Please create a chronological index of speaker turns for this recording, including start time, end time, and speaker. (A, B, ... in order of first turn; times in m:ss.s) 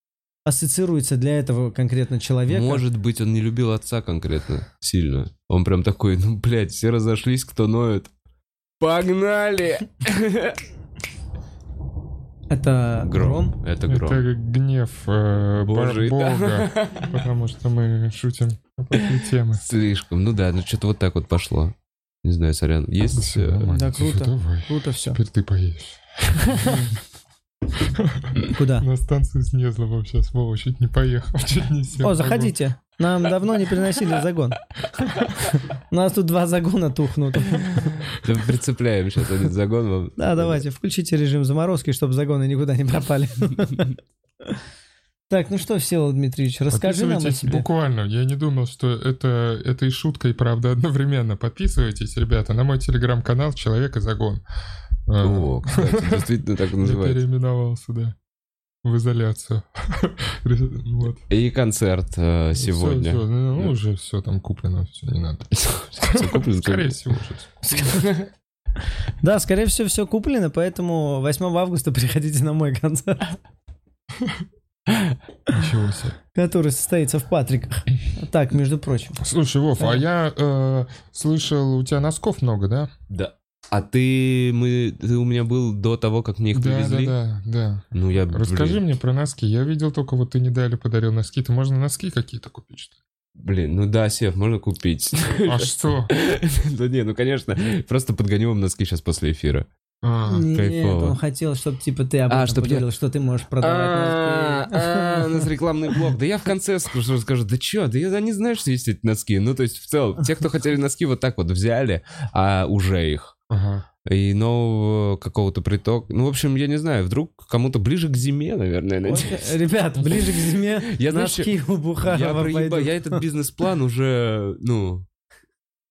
0:00.4-0:02.8 A
0:02.5-0:08.1 B
0:08.8-0:10.6 B
0:12.5-0:13.6 A
0:13.0-0:14.2 B
0:13.9-0:19.6 C
0:15.6-0:17.2 B
0:19.6-0:23.7 B
0:23.1-0:26.8 C
0:23.7-0:25.2 A
0:26.6-0:26.9 A
0:27.8-0:32.5 C
0:28.5-0:28.9 A
0:32.0-0:34.6 A
0:35.5-0:37.9 A
0:37.8-0:40.6 B
0:40.2-0:43.9 A
0:45.3-0:47.6 A
0:46.7-0:54.4 C
0:55.1-0:58.2 C
0:55.2-0:57.2 B
0:58.8-1:01.2 C
1:01.3-1:03.7 B
1:02.6-1:07.6 C
1:05.5-1:07.0 B
1:07.6-1:08.1 A
1:07.9-1:08.2 B
1:09.2-1:13.4 A
1:14.9-1:15.1 B
1:15.5-1:16.2 C
1:16.3-1:19.2 A
1:19.2-1:22.9 C
1:23.1-1:27.2 B
1:26.5-1:33.0 C
1:27.9-1:28.8 B
1:33.4-1:39.7 B
1:35.4-1:36.1 C
1:40.0-1:40.5 C
1:40.2-1:45.4 A
1:40.5-1:41.2 B
1:42.3-1:42.8 B
1:43.6-1:53.4 B
1:53.5-1:53.8 C
1:54.0-2:05.0 B
1:59.1-2:03.2 A